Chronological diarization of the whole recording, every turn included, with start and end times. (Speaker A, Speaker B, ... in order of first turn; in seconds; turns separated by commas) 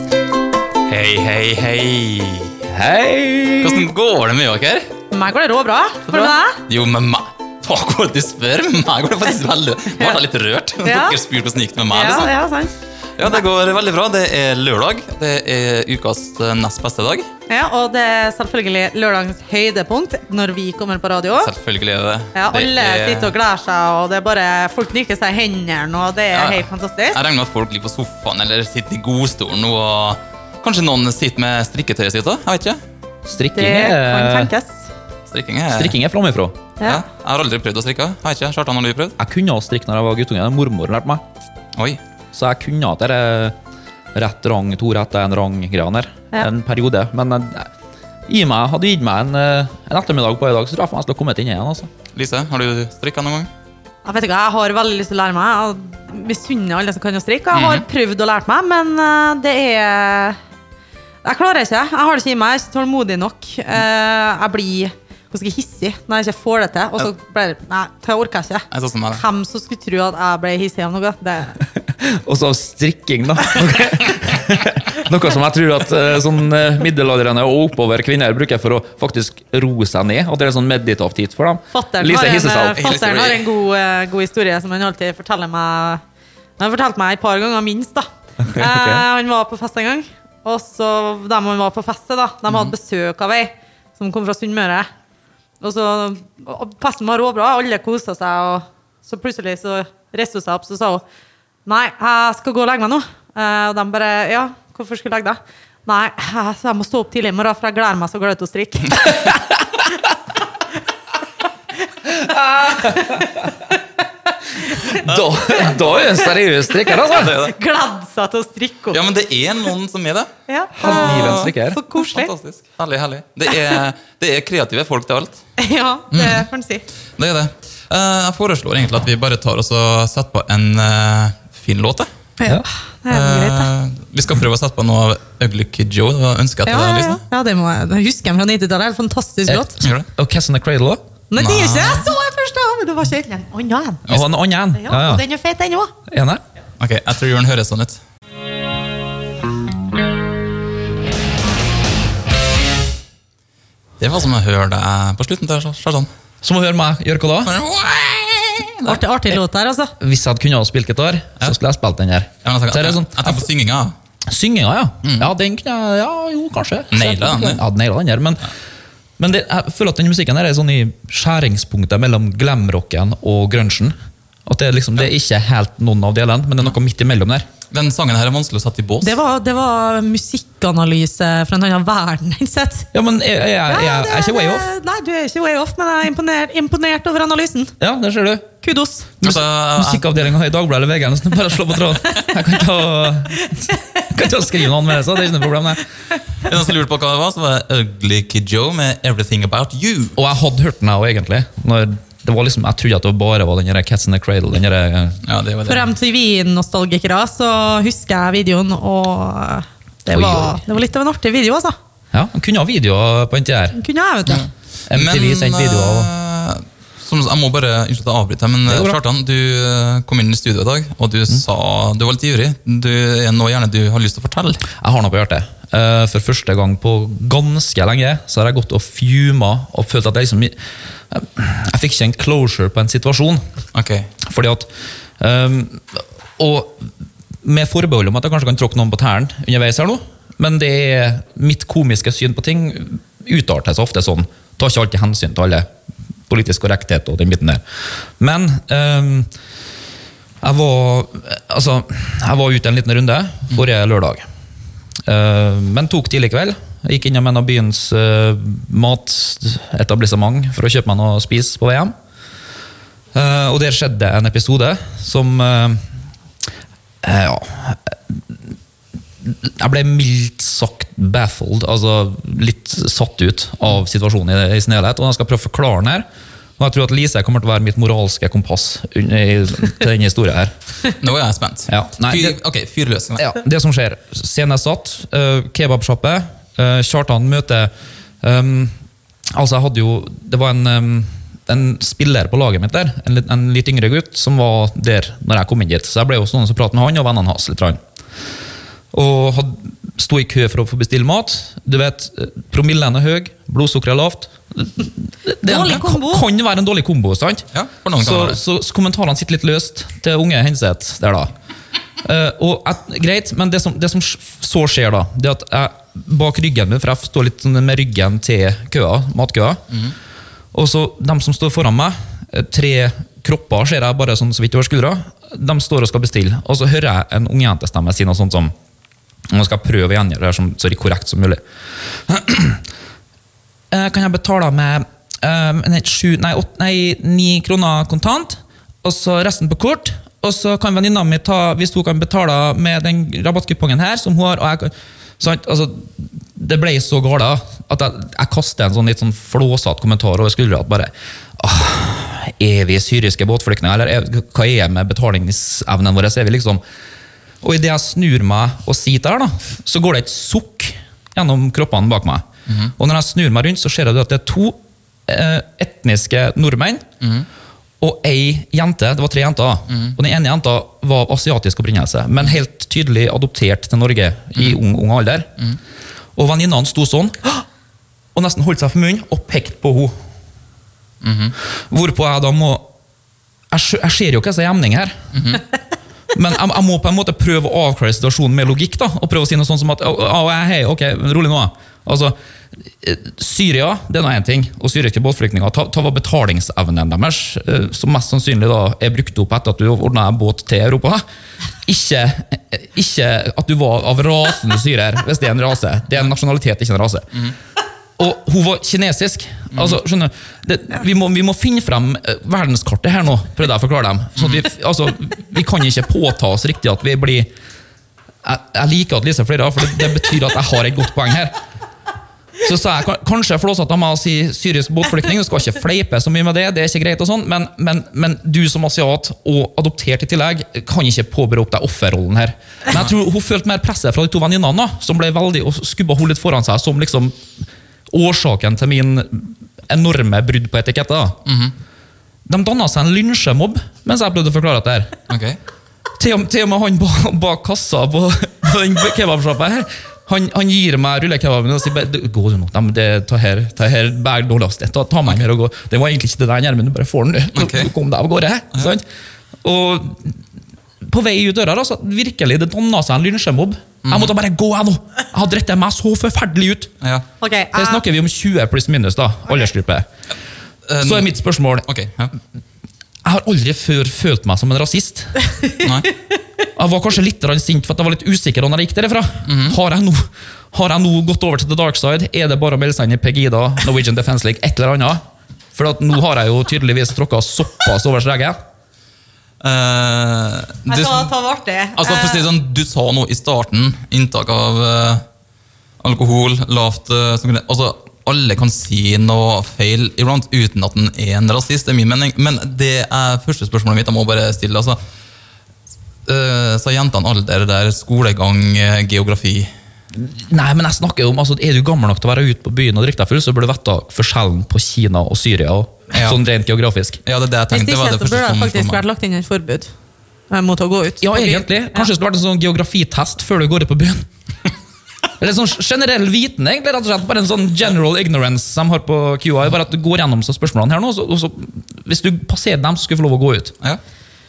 Speaker A: 0.9-2.5, Speaker B: 2.7-3.9, Speaker A: 3.6-4.9, Speaker C: 5.1-6.6, Speaker A: 6.1-12.3, Speaker C: 10.8-11.2, Speaker C: 11.9-12.7, Speaker A: 13.2-17.3, Speaker C: 17.5-21.5, Speaker A: 21.4-23.3, Speaker C: 22.3-27.2, Speaker A: 26.3-32.8, Speaker B: 33.2-34.5, Speaker C: 33.5-34.9, Speaker A: 35.3-35.9, Speaker B: 35.7-36.6, Speaker A: 36.8-39.2, Speaker B: 39.2-41.2, Speaker B: 42.3-43.5, Speaker B: 44.1-47.7, Speaker B: 48.3-51.9, Speaker A: 52.1-53.5, Speaker C: 54.0-60.4, Speaker A: 57.5-57.8, Speaker C: 61.2-71.6, Speaker A: 68.7-69.2, Speaker B: 71.9-82.8, Speaker C: 81.7-86.0, Speaker A: 82.7-83.5, Speaker C: 86.6-94.9, Speaker B: 88.5-89.0, Speaker C: 95.6-101.0, Speaker C: 101.7-109.2, Speaker B: 112.2-113.4, Speaker C: 112.6-113.4, Speaker C: 114.7-115.0, Speaker B: 114.8-117.3, Speaker C: 115.7-116.1, Speaker C: 116.8-119.0, Speaker A: 117.0-117.5, Speaker A: 118.9-120.3, Speaker C: 120.5-122.3, Speaker B: 120.8-121.8, Speaker A: 120.8-125.4, Speaker C: 125.6-126.8, Speaker A: 126.1-126.5, Speaker A: 127.2-132.1, Speaker C: 132.4-133.7, Speaker A: 133.1-137.2, Speaker C: 136.7-139.8, Speaker B: 139.5-141.0, Speaker A: 139.8-140.1, Speaker C: 141.3-144.1, Speaker A: 141.4-142.1, Speaker B: 144.1-145.2, Speaker C: 144.7-145.9, Speaker B: 146.1-146.4, Speaker A: 146.8-148.0, Speaker A: 154.0-156.1, Speaker B: 156.4-157.6, Speaker A: 157.4-159.0, Speaker C: 158.8-159.9, Speaker B: 160.0-163.4, Speaker A: 162.4-163.9, Speaker B: 164.3-168.5, Speaker A: 165.0-165.3, Speaker A: 166.9-167.6, Speaker B: 169.2-173.9, Speaker B: 174.4-177.5, Speaker A: 177.7-179.1, Speaker C: 179.0-182.9, Speaker B: 182.9-184.7, Speaker C: 183.7-187.7, Speaker B: 187.8-188.5, Speaker C: 188.6-189.1, Speaker A: 189.2-190.1, Speaker B: 189.2-195.8, Speaker A: 196.4-200.2, Speaker B: 200.2-205.2, Speaker A: 205.2-205.9, Speaker C: 205.7-211.8, Speaker B: 210.1-210.6, Speaker B: 212.1-213.8, Speaker C: 213.8-214.5, Speaker A: 214.3-224.7, Speaker B: 214.9-216.1, Speaker B: 218.7-219.0, Speaker B: 224.8-230.6, Speaker B: 231.1-233.4, Speaker A: 233.7-234.1, Speaker B: 234.2-234.7, Speaker B: 235.2-236.9, Speaker B: 237.4-245.7, Speaker B: 246.3-247.6, Speaker B: 248.2-249.3, Speaker B: 250.4-254.2, Speaker B: 255.0-261.9, Speaker B: 263.1-265.8, Speaker B: 267.0-268.2, Speaker B: 269.2-276.1, Speaker B: 276.6-280.5, Speaker A: 281.0-283.3, Speaker B: 281.7-282.4, Speaker B: 283.2-287.7, Speaker B: 288.2-288.7, Speaker B: 289.3-297.8, Speaker B: 298.9-307.4, Speaker C: 305.4-306.2, Speaker A: 307.5-308.4, Speaker B: 308.0-311.3, Speaker B: 312.0-319.6, Speaker B: 320.5-328.5, Speaker B: 329.3-331.4, Speaker B: 332.1-332.6, Speaker B: 333.7-356.6, Speaker B: 357.4-366.8, Speaker A: 362.5-362.7, Speaker A: 367.0-367.3, Speaker B: 367.8-375.3, Speaker A: 369.7-369.9, Speaker B: 376.1-377.4, Speaker B: 378.1-379.9, Speaker A: 381.0-381.3, Speaker B: 381.7-382.7, Speaker B: 383.5-385.0, Speaker A: 385.1-385.4, Speaker B: 386.1-392.1, Speaker B: 392.7-401.0, Speaker B: 401.6-407.1, Speaker B: 408.0-417.3, Speaker A: 414.2-414.4, Speaker B: 418.2-421.4, Speaker B: 422.4-437.2, Speaker B: 437.9-441.2, Speaker A: 441.2-441.5, Speaker B: 442.2-444.9, Speaker A: 445.1-445.4, Speaker B: 446.0-458.8, Speaker A: 457.3-457.7, Speaker B: 459.4-460.2, Speaker B: 460.8-466.7, Speaker A: 463.8-464.1, Speaker C: 467.2-467.8, Speaker B: 467.5-469.9, Speaker A: 470.7-471.1, Speaker B: 470.8-471.7, Speaker A: 471.6-472.1, Speaker B: 473.0-475.1, Speaker A: 475.6-475.9, Speaker B: 476.6-485.0, Speaker A: 479.2-479.6, Speaker B: 485.5-488.4, Speaker A: 489.4-491.1, Speaker C: 490.7-492.3, Speaker A: 491.8-495.0, Speaker A: 495.8-504.8, Speaker A: 506.1-509.5, Speaker B: 509.9-517.0, Speaker A: 515.9-516.2, Speaker A: 517.0-518.8, Speaker C: 517.5-519.7, Speaker C: 520.3-521.9, Speaker B: 521.0-524.0, Speaker B: 525.2-533.5